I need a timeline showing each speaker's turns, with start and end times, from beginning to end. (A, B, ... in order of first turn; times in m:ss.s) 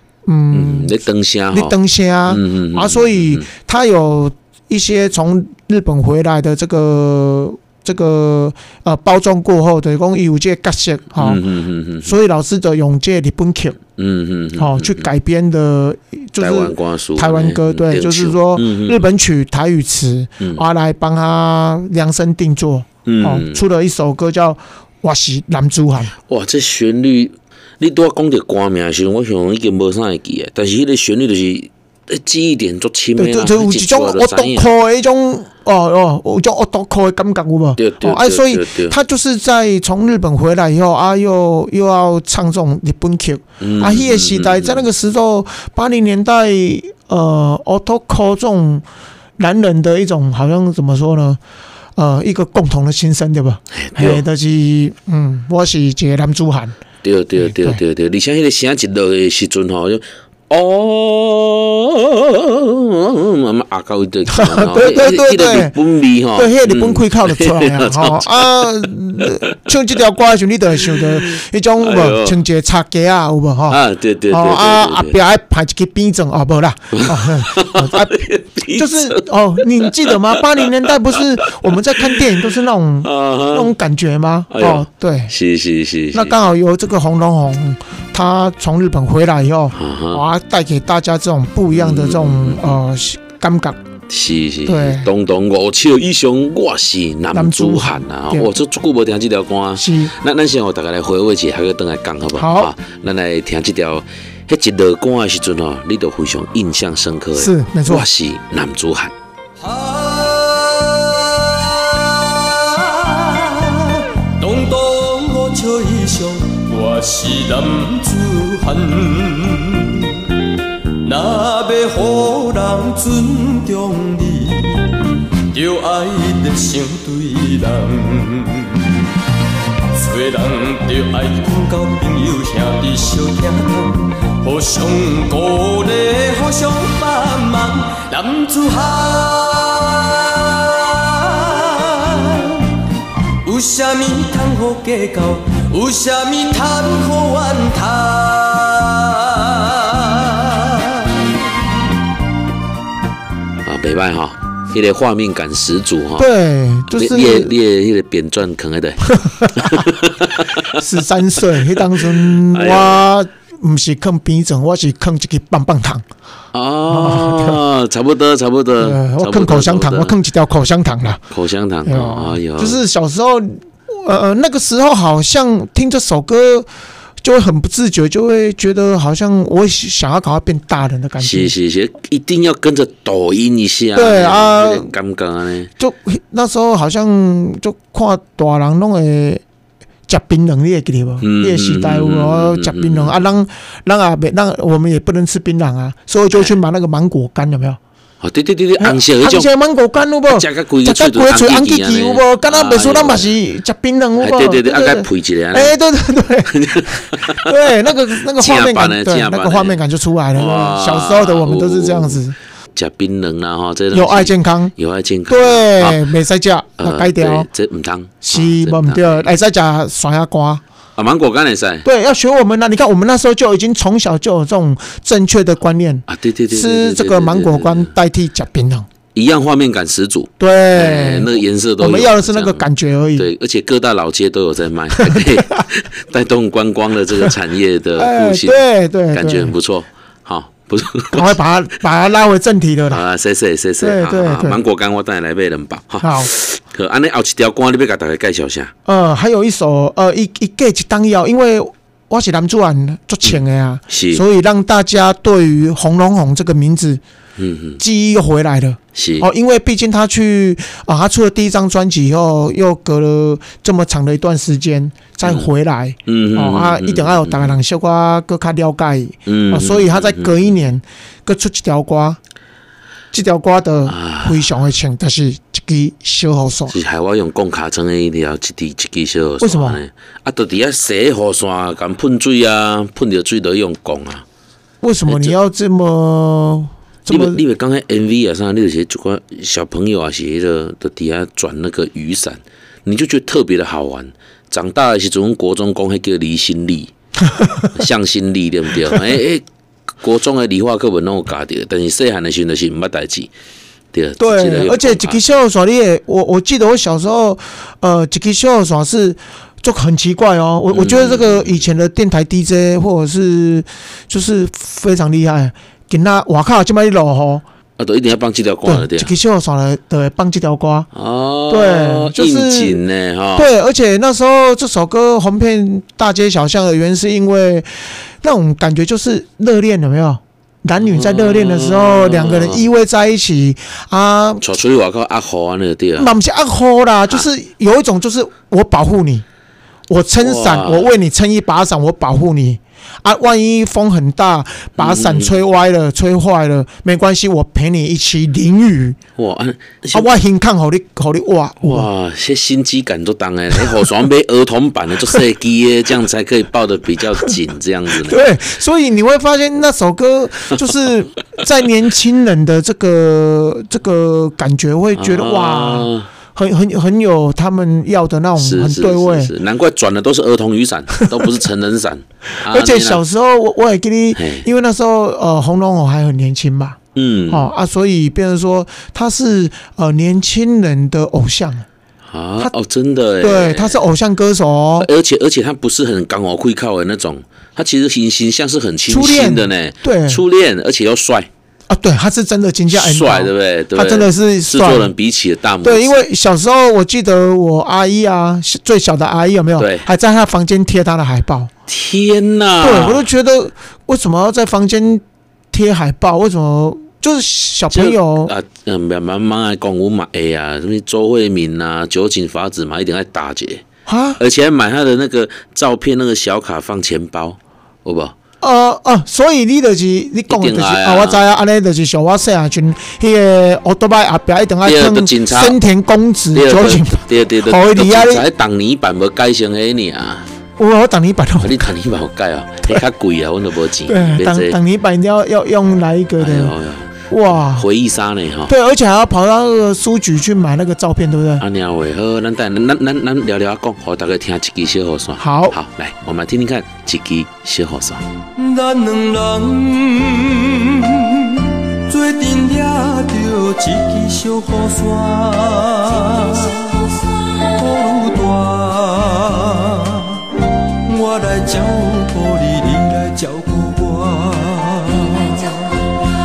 0:00.3-0:00.9 A
0:00.5-0:01.7 B
0:01.5-0:11.4 A
0:02.3-0:03.5 B
0:11.2-0:12.1 B
0:12.0-0:13.8 A
0:14.0-0:15.1 B
0:14.6-0:26.1 A
0:16.4-0:19.0 B
0:23.0-0:23.6 B
0:26.3-0:34.7 B
0:33.2-0:48.9 A
0:37.8-0:39.0 B
0:43.6-0:44.8 B
0:49.4-0:51.4 A
0:52.0-0:56.8 A
0:53.7-0:54.2 B
0:57.0-1:08.7 B
0:57.4-0:57.8 A
1:04.3-1:05.7 A
1:06.4-1:13.8 A
1:10.8-1:12.4 B
1:13.7-1:15.2 B
1:14.3-1:25.3 A
1:17.0-1:19.2 B
1:19.8-1:20.9 B
1:23.0-1:23.7 B
1:24.5-1:26.4 B
1:26.1-1:33.8 A
1:29.7-1:30.2 B
1:31.7-1:32.8 B
1:34.1-1:49.1 B
1:34.7-1:35.1 A
1:37.3-1:38.5 A
1:39.8-1:40.1 A
1:42.4-1:42.7 A
1:47.4-1:48.1 A
1:49.6-2:00.3 C
2:01.0-2:09.0 C
2:09.9-2:22.8 C
2:23.4-2:31.2 C
2:33.6-2:36.3 B
2:36.2-2:37.5 A
2:36.9-2:40.5 B
2:39.3-2:39.7 A
2:40.8-2:46.0 A
2:41.7-2:43.0 B
2:46.5-2:50.1 B
2:46.9-2:47.6 A
2:48.8-2:51.2 A
2:51.3-2:52.8 B
2:51.9-2:56.7 A
2:57.2-3:01.5 A
3:01.2-3:05.7 B
3:04.0-3:04.9 A
3:05.8-3:09.4 A
3:10.1-3:17.8 A
3:11.2-3:13.2 B
3:18.2-3:19.5 B
3:18.8-3:32.4 A
3:20.3-3:23.3 B
3:24.2-3:25.8 B
3:26.5-3:27.4 B
3:28.4-3:29.8 B
3:30.4-3:32.2 B
3:32.8-3:36.1 B
3:33.9-3:34.7 A
3:35.3-3:37.5 A
3:36.8-3:39.3 B
3:38.2-3:40.6 A
3:41.0-3:41.8 B
3:41.8-3:48.9 A
3:46.1-3:47.9 B
3:49.2-3:52.6 B
3:50.4-3:53.3 A
3:53.2-4:01.4 B
3:54.9-3:55.6 A
3:58.0-3:59.5 A
4:01.1-4:03.0 A
4:02.9-4:08.7 B
4:03.8-4:04.6 A
4:06.0-4:06.3 A
4:08.9-4:17.0 A
4:13.9-4:14.2 B
4:17.4-4:17.8 B
4:17.8-4:32.2 A
4:19.0-4:19.3 B
4:26.1-4:27.6 B
4:29.3-4:30.5 B
4:33.1-4:36.8 A
4:33.9-4:34.4 B
4:36.7-4:44.2 B
4:39.4-4:39.8 A
4:44.8-4:47.4 A
4:45.1-4:45.4 B
4:47.1-4:56.9 B
4:57.7-4:59.4 B
5:00.0-5:03.3 B
5:03.9-5:05.2 B
5:04.2-5:17.4 A
5:10.7-5:11.6 B
5:17.8-5:19.1 B
5:18.6-5:20.9 A
5:20.9-5:23.5 B
5:21.5-5:22.8 A
5:23.4-5:34.4 A
5:30.8-5:32.6 B
5:34.4-5:36.1 B
5:36.0-5:39.2 A
5:39.9-5:49.0 A
5:40.2-5:40.9 B
5:44.8-5:45.4 B
5:49.2-5:50.2 B
5:49.9-5:51.9 A
5:51.6-5:58.3 B
5:53.6-5:53.8 A
5:58.0-6:09.3 A
6:05.0-6:06.1 B
6:08.4-6:13.0 B
6:12.5-6:16.8 A
6:14.2-6:14.5 B
6:17.0-6:17.5 B
6:17.3-6:21.7 A
6:22.1-6:23.8 B
6:23.2-6:24.9 A
6:24.8-6:31.3 B
6:28.9-6:30.2 A
6:31.7-6:34.9 A
6:32.7-6:36.0 B
6:35.6-6:41.5 A
6:39.6-6:39.9 B
6:41.7-6:43.1 B
6:42.6-6:48.3 A
6:47.7-6:53.6 B
6:53.9-6:54.2 A
6:54.2-6:58.2 B
6:58.4-7:08.2 A
7:00.3-7:01.2 B
7:04.6-7:05.6 B
7:06.3-7:10.3 B
7:10.6-7:11.7 A
7:11.4-7:14.6 B
7:13.9-7:16.5 A
7:16.2-7:18.5 B
7:17.1-7:17.7 A
7:18.5-7:21.4 A
7:21.4-7:28.0 B
7:25.2-7:25.6 A
7:28.4-7:45.9 C